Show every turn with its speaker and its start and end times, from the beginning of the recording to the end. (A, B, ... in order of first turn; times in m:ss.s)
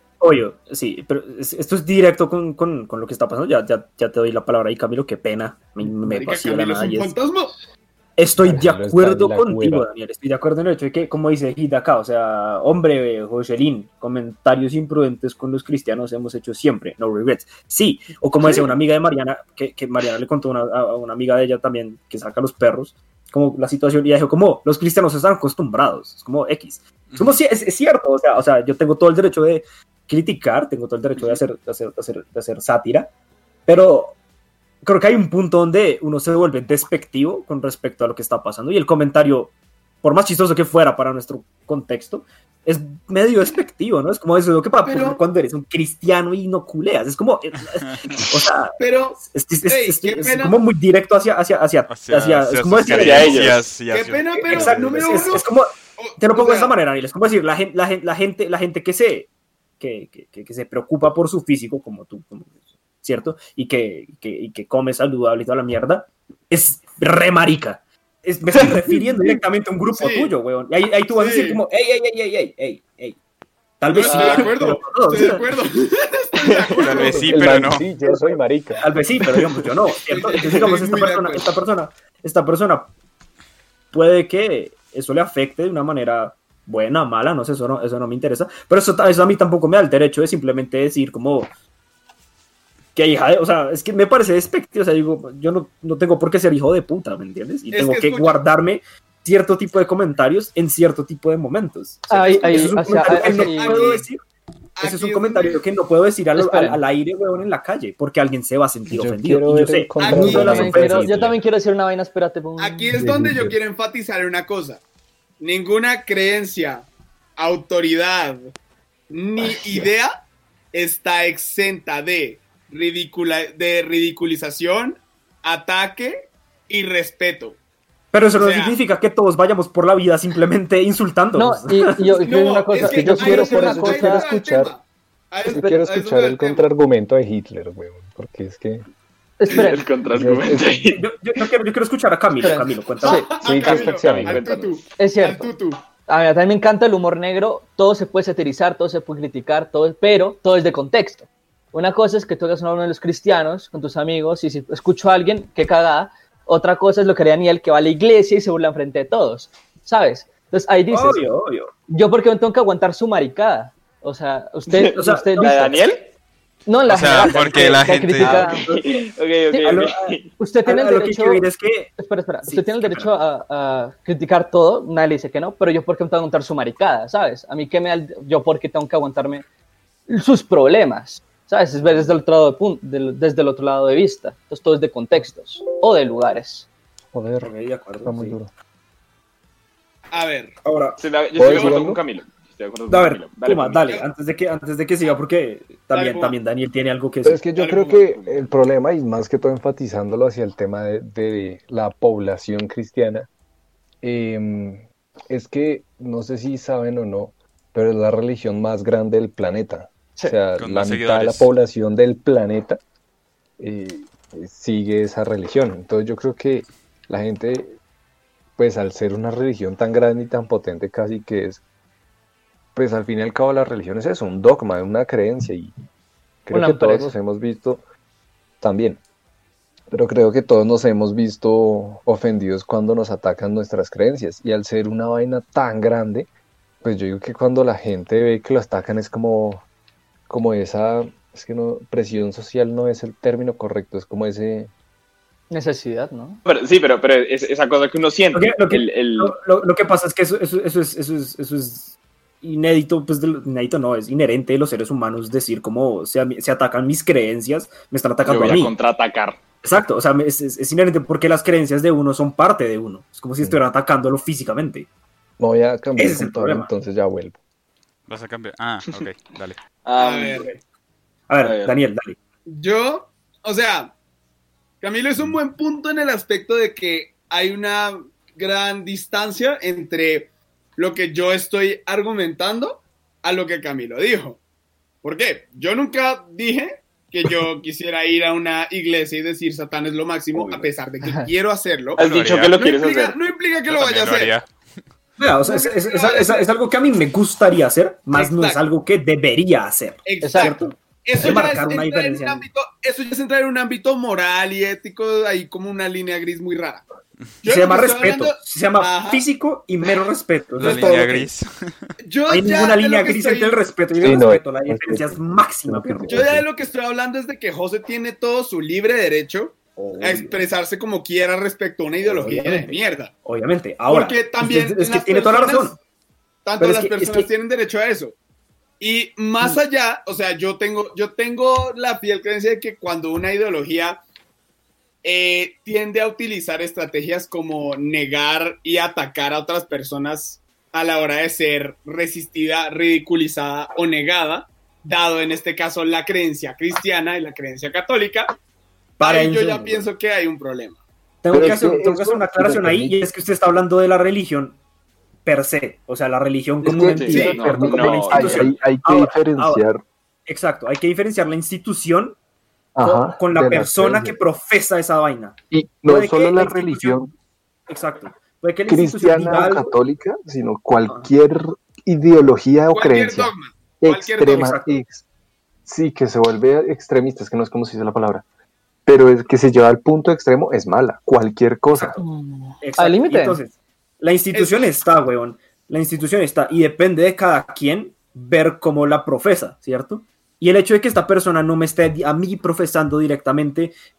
0:00.2-0:07.2 A
0:06.0-0:07.6 B
0:08.2-0:33.1 A
0:08.4-0:09.9 C
0:27.1-0:27.4 D
0:33.7-0:34.2 A
0:34.8-0:53.6 A
0:44.8-0:45.2 B
0:48.8-0:50.6 B
0:51.9-0:54.9 D
0:52.9-0:53.6 E
0:53.9-0:56.8 B
0:54.5-0:59.3 A
0:59.8-1:13.2 A
1:09.9-1:10.4 B
1:11.1-1:11.6 B
1:13.8-1:15.5 A
1:13.9-1:17.4 B
1:14.1-1:14.5 E
1:16.4-1:17.1 E
1:16.8-1:17.9 D
1:17.1-1:18.8 C
1:18.8-1:22.9 A
1:20.1-1:21.5 B
1:23.9-1:31.5 A
1:33.0-1:44.2 A
1:37.7-1:38.4 B
1:42.1-1:43.8 F
1:42.3-1:44.1 B
1:44.8-1:45.7 B
1:44.8-1:51.3 A
1:46.4-1:46.8 F
1:48.9-1:51.4 C
1:50.0-1:50.6 B
1:50.1-1:52.9 F
1:52.6-1:54.8 B
1:53.0-1:53.6 C
1:55.4-1:58.5 B
1:59.1-2:00.2 B
2:00.7-2:07.6 B
2:08.1-2:12.2 A
2:08.3-2:08.8 B
2:11.4-2:14.3 F
2:12.2-2:16.7 B
2:12.8-2:14.7 C
2:15.5-2:18.8 C
2:19.4-2:19.9 F
2:19.5-2:21.0 E
2:20.1-2:20.8 C
2:20.9-2:23.3 A
2:22.4-2:23.3 F
2:23.0-2:25.8 B
2:23.4-2:24.5 C
2:23.6-2:24.8 E
2:25.0-2:25.5 F
2:26.1-2:41.3 F
2:40.9-2:41.7 A
2:41.9-2:45.9 F
2:44.7-2:46.0 E
2:44.9-2:45.8 A
2:46.7-2:48.7 F
2:46.9-2:48.5 D
2:48.2-2:50.3 E
2:48.2-2:49.0 A
2:49.6-2:53.1 A
2:50.4-2:51.4 F
2:52.0-2:59.4 F
3:00.1-3:06.7 F
3:07.1-3:07.5 C
3:07.4-3:08.4 A
3:08.0-3:08.5 C
3:10.1-3:10.5 B
3:10.6-3:11.0 A
3:11.0-3:14.0 E
3:11.4-3:12.0 C
3:12.9-3:17.4 A
3:15.9-3:16.4 B
3:17.2-3:23.3 C
3:17.5-3:18.2 B
3:18.2-3:18.5 E
3:24.0-3:32.8 C
3:30.6-3:31.5 D
3:33.6-3:37.7 C
3:38.6-3:41.6 C
3:42.8-3:45.7 C
3:46.5-3:47.8 C
3:46.5-3:47.1 F
3:48.6-3:49.0 C
3:49.9-3:56.3 C
3:56.8-3:59.6 C
4:00.3-4:04.7 C
4:05.5-4:06.4 F
4:06.5-4:09.4 E
4:08.3-4:18.7 A
4:18.2-4:19.4 E
4:19.6-4:24.9 A
4:25.4-4:27.4 C
4:26.0-4:26.7 A
4:28.1-4:29.6 D
4:29.8-4:30.5 E
4:30.0-4:30.6 B
4:31.3-4:32.2 A
4:31.4-4:31.8 E
4:32.5-4:33.9 B
4:34.8-4:44.4 B
4:45.0-4:54.4 B
4:50.4-4:50.7 A
4:51.0-4:51.3 F
4:52.0-4:53.2 E
4:52.0-4:52.6 D
4:53.7-4:54.5 D
4:55.2-5:02.5 A
4:55.4-4:56.5 B
4:58.1-4:58.6 B
5:00.0-5:06.8 B
5:00.2-5:00.6 F
5:07.4-5:09.3 B
5:07.5-5:11.3 A
5:10.6-5:11.9 D
5:10.6-5:11.1 B
5:12.0-5:14.2 B
5:12.3-5:16.4 A
5:14.0-5:16.4 C
5:16.1-5:23.1 B
5:19.8-5:20.5 A
5:22.0-5:25.8 A
5:23.9-5:25.8 B
5:26.4-5:28.2 B
5:26.6-5:27.3 A
5:28.8-5:34.0 B
5:35.0-5:48.4 B
5:49.0-5:50.8 B
5:49.0-5:49.9 A
5:51.2-5:54.6 A
5:51.3-5:53.0 C
5:55.3-5:59.6 A
5:56.6-5:59.8 C
5:56.9-5:58.6 E
5:57.1-5:57.5 B
6:00.3-6:02.2 A
6:02.8-6:04.2 C
6:02.8-6:07.1 A
6:05.5-6:07.1 C
6:07.7-6:09.7 A
6:08.7-6:15.0 C
6:12.7-6:14.6 B
6:14.3-6:14.8 A
6:15.7-6:18.2 C
6:18.9-6:22.0 C
6:22.0-6:23.4 F
6:22.6-6:33.7 A
6:24.3-6:24.7 B